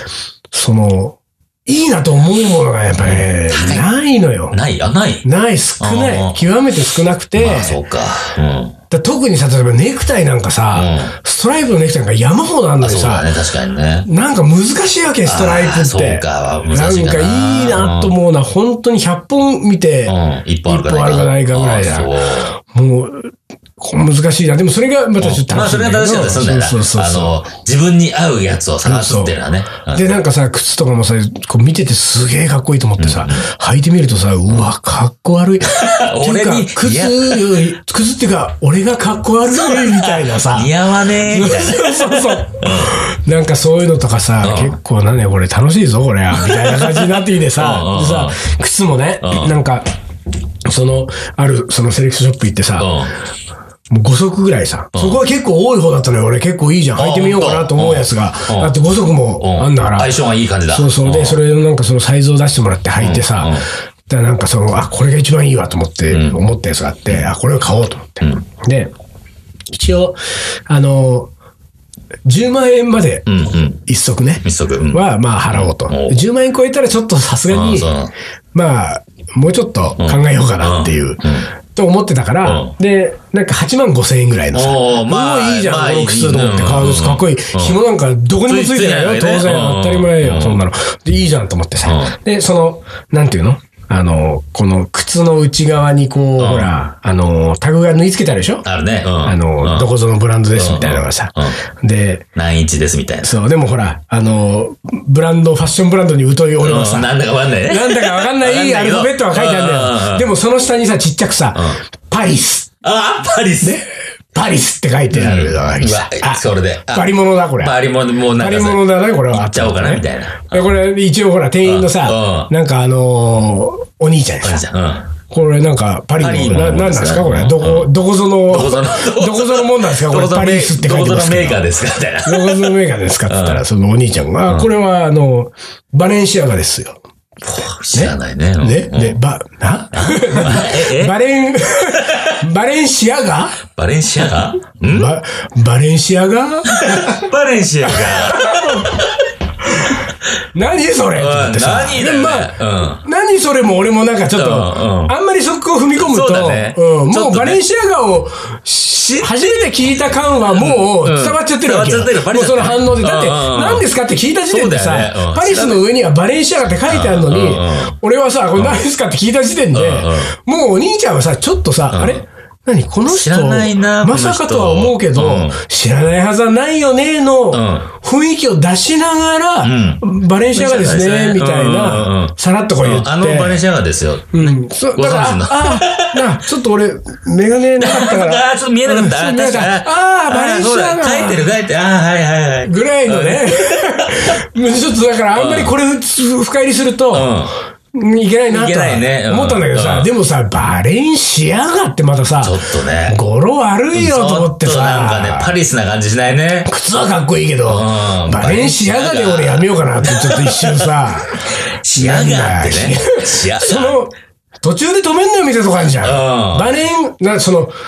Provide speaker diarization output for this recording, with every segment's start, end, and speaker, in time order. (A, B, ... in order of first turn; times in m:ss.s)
0:00.5-0:04.6 A
0:03.0-0:03.9 B
0:04.5-0:05.3 B
0:05.2-0:07.8 A
0:05.8-0:06.4 B
0:07.4-0:08.8 B
0:08.9-0:13.3 A
0:10.7-0:11.2 B
0:12.8-0:14.1 B
0:14.0-0:20.2 A
0:15.3-0:18.2 B
0:20.1-0:22.5 B
0:20.7-0:27.4 A
0:25.2-0:30.1 B
0:28.8-0:29.4 A
0:29.9-0:49.9 A
0:33.0-0:33.5 B
0:35.8-0:37.7 B
0:39.5-0:43.0 B
0:44.4-0:44.8 B
0:46.3-0:48.4 B
0:49.2-0:49.5 B
0:50.7-0:53.0 A
0:52.8-0:53.1 B
0:53.9-1:00.1 A
0:55.0-0:55.2 B
0:57.0-0:58.7 B
0:59.4-1:01.4 B
1:00.7-1:08.9 A
1:03.0-1:03.7 B
1:06.1-1:06.4 B
1:09.7-1:10.2 A
1:10.7-1:11.3 A
1:12.3-1:13.3 A
1:13.3-1:13.8 B
1:13.9-1:17.9 A
1:14.4-1:16.2 B
1:17.5-1:18.1 B
1:18.5-1:38.7 A
1:20.0-1:21.5 B
1:22.4-1:22.7 B
1:24.5-1:27.8 B
1:28.4-1:30.6 B
1:31.8-1:32.2 B
1:36.4-1:36.7 B
1:38.6-1:39.9 B
1:39.2-1:42.3 A
1:40.6-1:41.6 B
1:42.4-1:43.3 B
1:43.2-1:47.1 A
1:46.6-1:50.3 B
1:47.6-1:52.7 A
1:52.8-1:53.8 B
1:53.6-1:57.8 A
1:55.1-2:00.7 B
1:58.4-2:04.6 A
2:01.6-2:02.5 B
2:04.4-2:05.1 B
2:05.3-2:11.7 A
2:06.2-2:07.9 B
2:08.5-2:12.8 B
2:12.2-2:17.0 A
2:13.3-2:13.6 B
2:17.4-2:19.2 B
2:17.9-2:23.6 A
2:19.9-2:21.2 B
2:22.0-2:22.4 B
2:23.7-2:25.1 B
2:24.9-2:27.3 A
2:26.7-2:29.1 B
2:27.9-2:29.0 A
2:29.7-2:30.0 A
2:30.6-3:03.6 A
2:31.2-2:33.0 B
2:34.4-2:35.1 B
2:36.0-2:37.6 B
2:39.0-2:39.7 B
2:40.5-2:43.8 B
2:44.5-2:45.8 B
2:46.9-2:48.0 B
2:48.6-2:48.8 B
2:49.7-2:50.3 B
2:51.9-2:52.2 B
2:53.1-2:55.6 B
2:57.5-2:57.9 B
2:59.6-3:00.0 B
3:00.5-3:06.3 B
3:04.3-3:11.5 A
3:07.8-3:14.4 B
3:12.6-3:17.3 A
3:15.4-3:15.7 B
3:17.1-3:17.5 B
3:17.9-3:25.5 A
3:18.5-3:20.1 B
3:22.4-3:23.2 B
3:23.9-3:26.7 B
3:26.7-3:31.4 A
3:27.7-3:30.9 B
3:31.7-3:34.0 B
3:32.0-3:37.7 A
3:36.0-3:36.7 B